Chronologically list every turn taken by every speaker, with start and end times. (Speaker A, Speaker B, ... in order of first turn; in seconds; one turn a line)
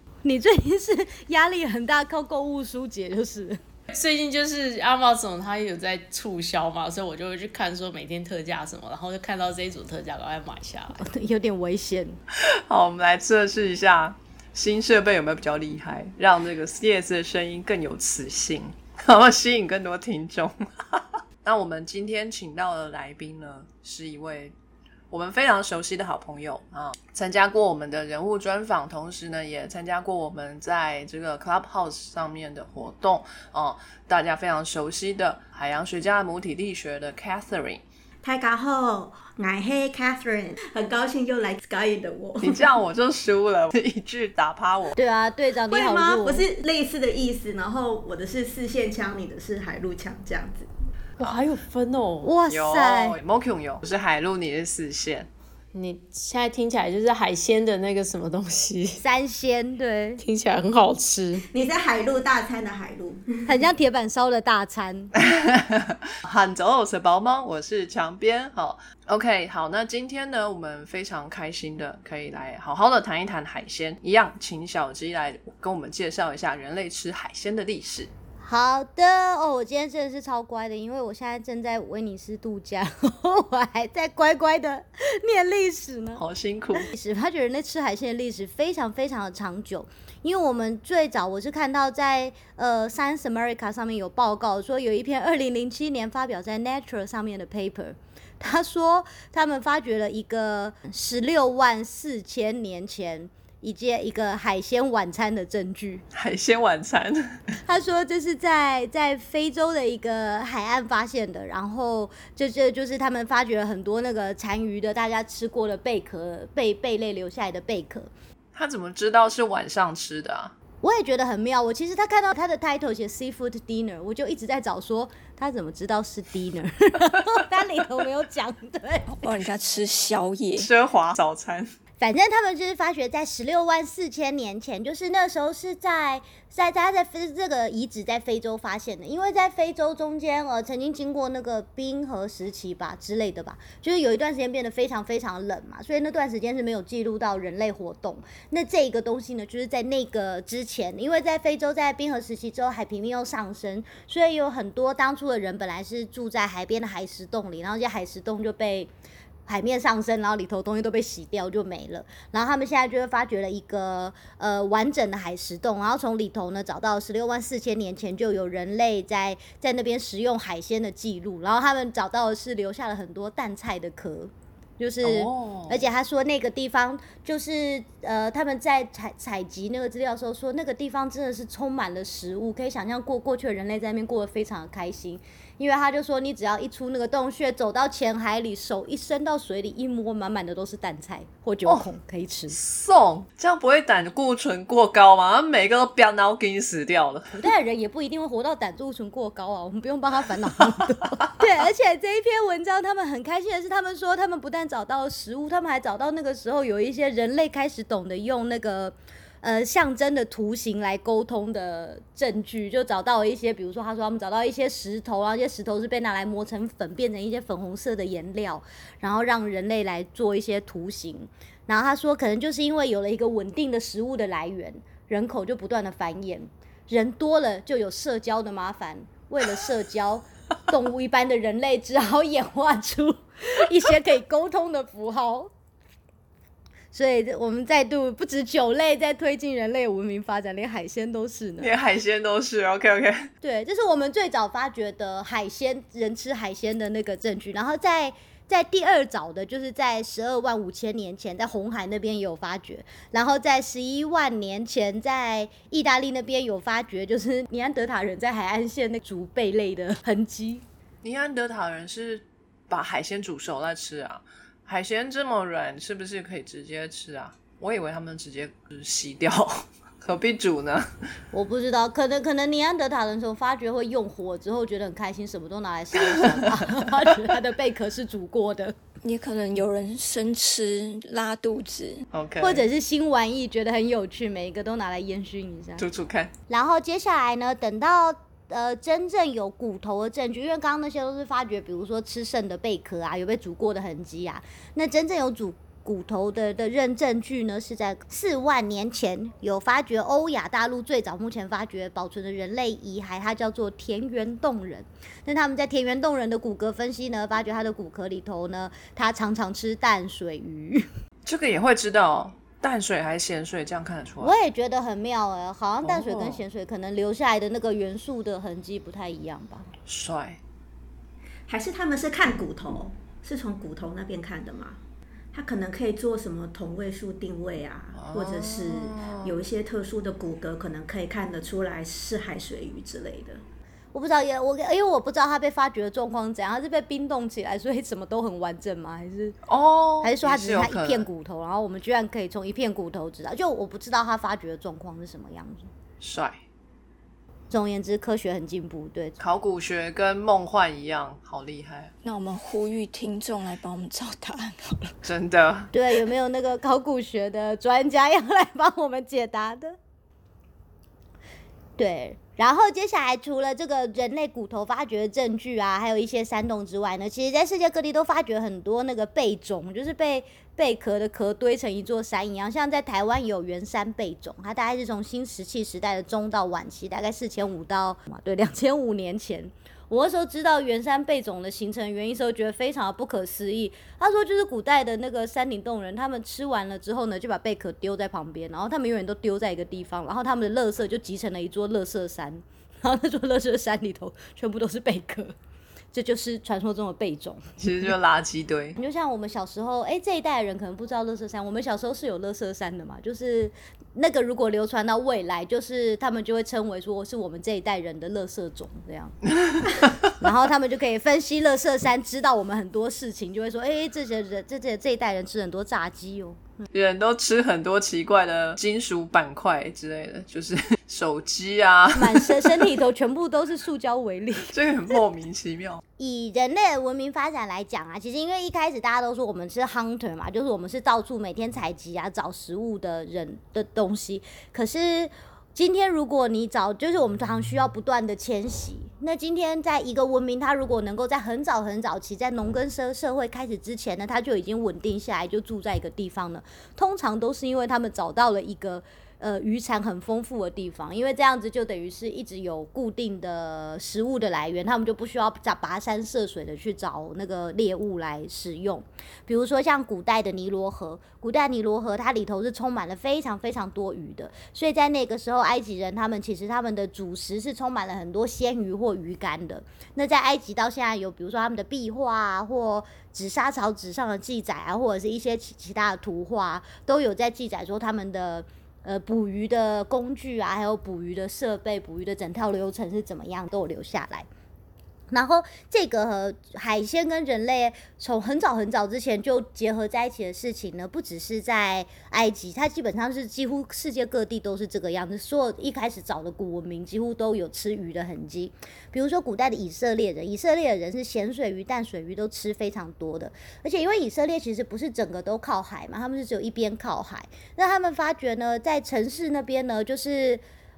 Speaker A: 0.2-3.6
Speaker B: 3.9-11.1
Speaker A: 11.0-12.2
Speaker C: 12.5-24.5
Speaker C: 25.1-37.8
Speaker D: 38.2-42.6
Speaker C: 42.4-45.0
Speaker A: 45.0-46.5
Speaker D: 45.7-50.7
Speaker B: 51.2-52.3
Speaker A: 52.2-53.2
Speaker C: 52.5-55.3
Speaker B: 55.7-59.0
Speaker A: 59.0-60.2
Speaker B: 60.2-61.5
Speaker D: 61.5-63.5
Speaker A: 63.5-65.1
Speaker C: 65.2-78.1
Speaker A: 78.4-86.2
Speaker C: 86.2-86.9
Speaker A: 86.8-106.0
Speaker C: 106.1-107.4
Speaker A: 107.7-118.1
Speaker C: 118.5-120.5
Speaker A: 120.8-129.2
Speaker E: 129.2-130.7
Speaker C: 130.6-131.7
Speaker A: 132.0-158.9
Speaker A: 159.5-192.6
Speaker C: 175.0-175.8
Speaker C: 192.5-197.3
Speaker A: 197.3-235.5
Speaker A: 236.9-241.7
Speaker C: 241.6-243.3
Speaker A: 243.4-260.6
Speaker C: 261.0-270.9
Speaker A: 271.3-278.8
Speaker E: 279.0-282.1
Speaker C: 282.1-282.6
Speaker A: 282.4-285.9
Speaker C: 285.8-286.3
Speaker A: 286.5-310.9
Speaker C: 311.2-314.4
Speaker A: 314.2-319.7
Speaker C: 315.8-316.4
Speaker C: 319.9-320.4
Speaker D: 321.5-324.8
Speaker D: 325.3-333.4
Speaker C: 327.9-329.3
Speaker A: 333.9-339.4
Speaker C: 339.5-341.1
Speaker A: 340.0-345.7
Speaker C: 346.0-346.4
Speaker A: 347.5-349.2
Speaker C: 349.2-351.9
Speaker E: 352.0-354.9
Speaker C: 355.0-355.7
Speaker A: 355.7-359.8
Speaker A: 361.8-395.3
Speaker A: 395.9-397.9
Speaker C: 397.6-398.8
Speaker A: 398.8-409.2
Speaker C: 409.5-409.9
Speaker A: 410.2-416.5
Speaker C: 416.7-422.6
Speaker A: 421.9-424.5
Speaker C: 424.5-425.8
Speaker A: 426.0-484.3
Speaker A: 485.1-510.4